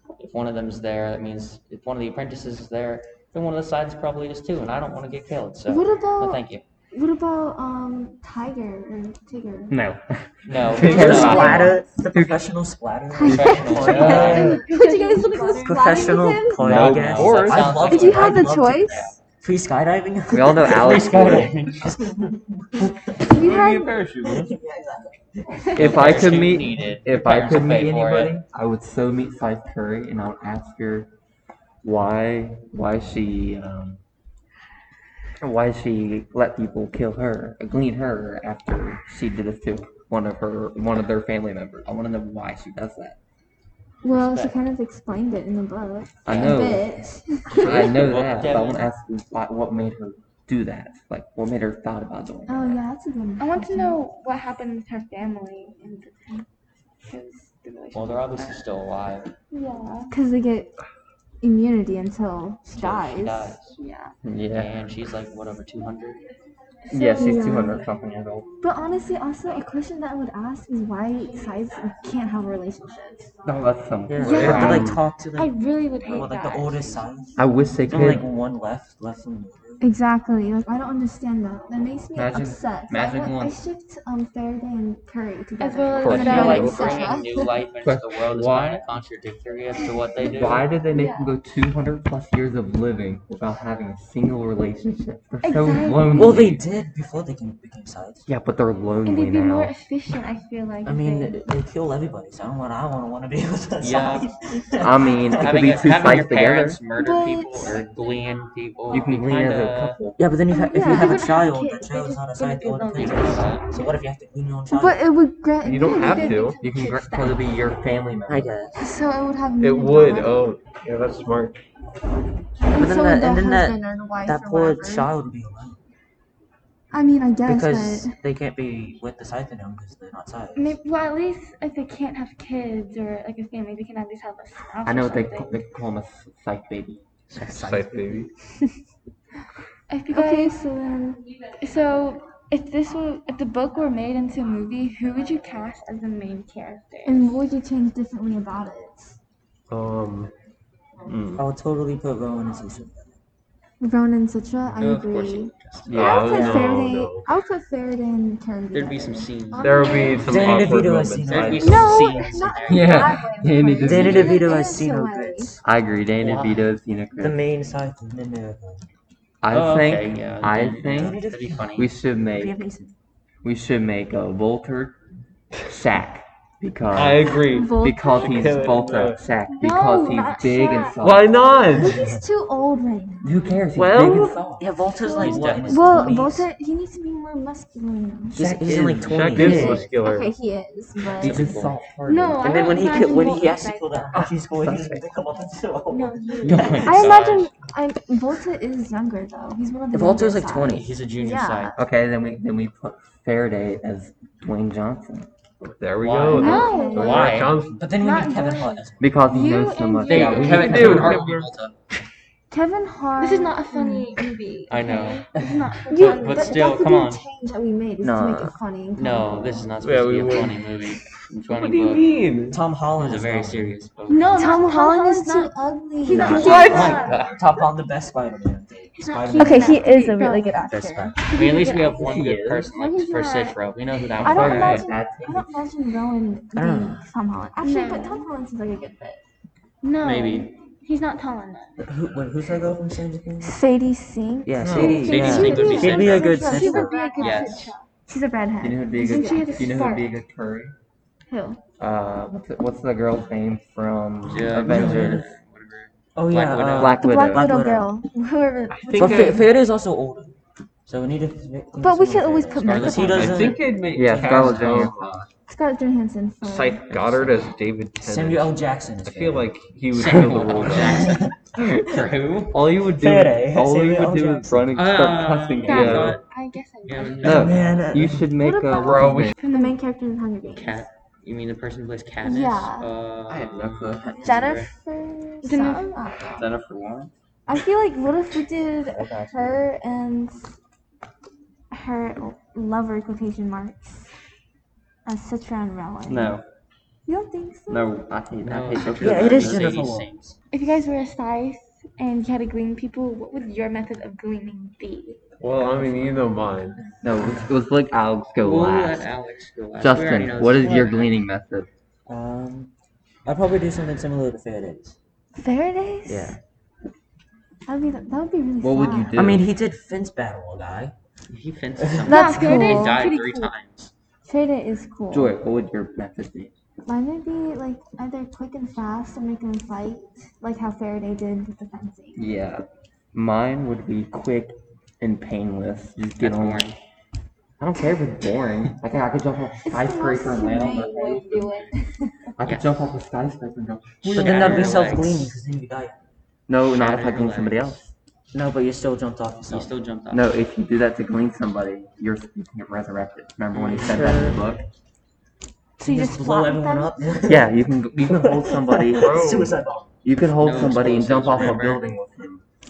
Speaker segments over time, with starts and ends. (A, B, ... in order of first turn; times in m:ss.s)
0:00.2-0:06.6 A
0:05.7-0:09.8 B
0:09.7-0:12.5 C
0:10.4-0:11.7 A
0:10.6-0:14.6 D
0:10.8-0:11.8 B
0:13.1-0:16.7 B
0:13.2-0:14.6 A
0:13.3-0:14.4 C
0:13.8-0:14.7 E
0:14.6-0:15.7 F
0:15.6-0:18.8 D
0:16.6-0:17.3 C
0:16.6-0:18.1 E
0:16.7-0:19.2 A
0:17.8-0:19.1 B
0:19.4-0:23.3 D
0:20.3-0:21.5 C
0:20.7-0:21.9 A
0:23.3-0:24.5 E
0:23.3-0:23.9 B
0:24.2-0:26.5 D
0:25.7-0:28.3 A
0:25.8-0:31.1 C
0:31.8-0:34.0 C
0:35.4-0:42.0 C
0:41.9-0:42.7 A
0:42.6-0:43.2 C
0:44.0-0:47.9 B
0:44.1-0:44.5 A
0:46.2-0:46.9 C
0:46.3-0:46.8 A
0:47.5-0:48.9 A
0:47.6-0:52.8 C
0:52.5-0:54.0 B
0:53.4-0:56.4 F
0:57.0-0:58.6 F
0:57.9-0:59.3 A
0:59.5-1:00.1 F
1:00.1-1:00.7 B
1:01.4-1:03.6 B
1:02.7-1:03.8 A
1:03.8-1:04.1 F
1:04.2-1:04.7 C
1:04.5-1:06.2 A
1:06.8-1:07.8 F
1:06.9-1:08.5 C
1:07.2-1:07.8 B
1:08.6-1:13.3 B
1:13.4-1:14.9 C
1:14.1-1:15.5 D
1:14.3-1:15.0 E
1:14.3-1:14.8 F
1:15.3-1:17.1 F
1:16.0-1:17.4 D
1:17.4-1:18.2 C
1:17.9-1:19.8 D
1:19.8-1:27.4 B
1:22.1-1:23.6 C
1:25.6-1:27.1 F
1:26.0-1:27.1 E
1:26.0-1:30.7 A
1:27.8-1:28.8 C
1:30.2-1:36.6 C
1:30.8-1:31.3 F
1:35.4-1:36.1 F
1:36.1-1:38.2 D
1:38.3-1:39.7 C
1:39.0-1:41.3 F
1:40.8-1:45.8 D
1:43.8-1:44.3 A
1:44.8-1:46.8 C
1:45.3-1:50.0 A
1:47.0-1:47.8 B
1:48.9-1:50.2 C
1:50.2-1:55.0 D
1:50.5-1:51.4 B
1:51.0-1:53.4 F
1:52.9-1:53.7 A
1:54.7-1:56.5 B
1:55.6-1:56.6 E
1:55.9-1:57.5 F
1:56.6-1:58.5 C
1:58.3-1:58.8 D
1:58.8-2:00.5 B
1:59.6-2:01.6 E
2:02.7-2:05.1 B
2:02.7-2:05.8 D
2:06.9-2:08.1 B
2:07.4-2:10.8 D
2:10.6-2:15.6 F
2:14.8-2:17.0 C
2:17.3-2:18.3 D
2:17.4-2:18.3 E
2:19.9-2:20.6 F
2:20.1-2:21.2 B
2:21.6-2:27.4 F
2:27.0-2:29.2 B
2:29.7-2:30.3 E
2:31.0-2:31.4 E
2:31.4-2:33.2 D
2:33.8-2:40.6 B
2:34.8-2:36.2 A
2:35.9-2:37.3 E
2:38.7-2:43.3 A
2:39.6-2:42.0 E
2:39.9-2:40.1 F
2:40.2-2:41.9 D
2:41.6-2:45.6 B
2:42.7-2:44.5 C
2:43.8-2:45.6 D
2:45.6-2:47.4 C
2:46.2-2:46.5 D
2:46.2-2:46.6 A
2:47.2-2:48.9 D
2:49.4-2:51.2 C
2:49.5-2:51.9 A
2:50.8-2:51.6 D
2:51.7-2:52.5 C
2:52.3-2:52.9 D
2:53.4-2:55.0 C
2:55.7-3:01.4 C
2:56.9-2:59.2 E
2:57.4-2:58.2 B
2:59.5-3:01.0 F
3:00.1-3:00.8 B
3:01.0-3:02.0 E
3:01.8-3:03.3 B
3:01.8-3:02.2 D
3:03.2-3:04.7 C
3:03.7-3:04.4 E
3:04.6-3:06.5 D
3:05.0-3:08.4 B
3:05.2-3:06.1 A
3:08.3-3:09.8 D
3:08.4-3:09.8 C
3:08.8-3:10.3 E
3:09.4-3:11.3 B
3:11.2-3:13.3 C
3:11.2-3:11.7 D
3:12.0-3:14.2 F
3:12.4-3:16.8 D
3:14.1-3:15.0 C
3:15.9-3:16.9 F
3:16.4-3:17.1 C
3:16.4-3:17.5 A
3:16.8-3:21.8 B
3:19.9-3:20.9 D
3:20.7-3:21.8 A
3:21.8-3:25.3 C
3:25.6-3:28.0 E
3:26.0-3:27.6 A
3:26.3-3:27.4 B
3:26.4-3:27.0 F
3:27.8-3:29.2 D
3:27.9-3:28.8 F
3:29.0-3:31.2 C
3:29.3-3:30.1 B
3:29.7-3:30.4 F
3:30.0-3:31.7 A
3:30.1-3:31.5 E
3:32.5-3:34.1 B
3:33.2-3:36.5 F
3:34.7-3:35.3 A
3:35.9-3:39.7 B
3:36.0-3:37.2 A
3:38.0-3:38.6 C
3:39.0-3:42.0 A
3:39.8-3:40.7 E
3:41.4-3:42.6 E
3:42.5-3:43.8 D
3:43.0-3:44.7 A
3:44.1-3:47.2 F
3:44.4-3:47.0 B
3:46.1-3:50.0 D
3:46.2-3:47.4 A
3:46.4-3:46.9 E
3:48.9-3:50.6 F
3:49.3-3:51.2 B
3:50.6-3:51.2 D
3:51.2-3:52.1 F
3:51.3-3:54.9 A
3:52.0-3:52.7 E
3:52.6-3:53.6 F
3:54.2-3:59.2 B
3:54.2-3:55.6 C
3:56.5-3:57.1 D
3:57.6-3:58.3 F
3:59.8-4:01.8 F
4:00.0-4:00.5 A
4:01.8-4:03.6 D
4:03.4-4:07.4 B
4:04.4-4:07.6 D
4:04.6-4:05.6 C
4:05.0-4:06.4 A
4:06.3-4:07.8 F
4:07.1-4:07.7 A
4:08.1-4:09.7 B
4:08.6-4:10.7 C
4:08.9-4:10.1 F
4:11.3-4:11.6 B
4:11.8-4:15.3 C
4:14.3-4:17.1 A
4:14.4-4:15.3 D
4:16.2-4:17.9 D
4:16.7-4:17.5 C
4:17.0-4:19.4 B
4:18.7-4:19.4 E
4:18.9-4:24.9 D
4:21.8-4:23.5 B
4:22.6-4:23.5 A
4:23.0-4:25.3 E
4:23.9-4:25.0 C
4:25.5-4:27.0 B
4:26.4-4:31.1 E
4:28.0-4:29.5 D
4:29.9-4:32.6 A
4:30.1-4:30.9 C
4:30.7-4:31.3 D
4:31.5-4:31.9 C
4:32.6-4:36.2 C
4:32.8-4:34.7 D
4:34.7-4:36.2 A
4:35.6-4:36.2 E
4:35.6-4:37.7 F
4:36.8-4:37.8 A
4:37.2-4:38.3 D
4:37.2-4:39.4 C
4:38.4-4:40.8 B
4:38.8-4:39.2 A
4:39.4-4:39.8 F
4:40.4-4:44.7 A
4:42.2-4:42.9 B
4:43.3-4:44.5 C
4:44.2-4:46.5 B
4:45.4-4:46.0 F
4:46.4-4:47.1 C
4:47.5-4:50.5 B
4:48.9-4:49.6 D
4:51.7-4:54.1 B
4:55.0-4:56.3 B
4:56.1-4:56.4 C
4:57.0-4:57.9 B
4:57.7-4:59.6 C
4:58.4-5:00.4 A
4:59.0-5:00.1 D
5:00.5-5:05.2 F
5:05.4-5:06.8 E
5:07.0-5:09.1 C
5:07.2-5:07.5 D
5:08.4-5:11.1 A
5:09.8-5:11.7 C
5:10.6-5:11.1 D
5:12.1-5:12.7 D
5:13.2-5:15.0 D
5:15.4-5:16.4 B
5:16.0-5:16.4 D
5:17.7-5:19.1 B
5:18.6-5:19.5 C
5:19.1-5:20.9 D
5:21.3-5:23.9 A
5:21.8-5:22.1 D
5:22.0-5:23.0 B
5:22.2-5:23.5 F
5:24.2-5:25.3 B
5:25.1-5:26.5 C
5:26.8-5:32.2 B
5:32.2-5:36.6 C
5:36.2-5:36.8 A
5:37.6-5:41.7 C
5:39.6-5:42.1 B
5:42.4-5:45.1 C
5:42.4-5:42.8 A
5:44.0-5:46.1 D
5:44.1-5:45.3 A
5:46.5-5:47.9 C
5:46.6-5:47.8 A
5:48.3-5:49.7 D
5:49.5-5:50.3 A
5:50.1-5:54.6 C
5:53.5-5:53.9 A
5:53.8-5:54.4 D
5:55.8-5:57.1 B
5:55.8-5:59.9 D
5:57.3-5:59.4 C
5:58.9-5:59.5 E
6:00.0-6:02.4 C
6:00.4-6:01.9 A
6:00.4-6:01.6 D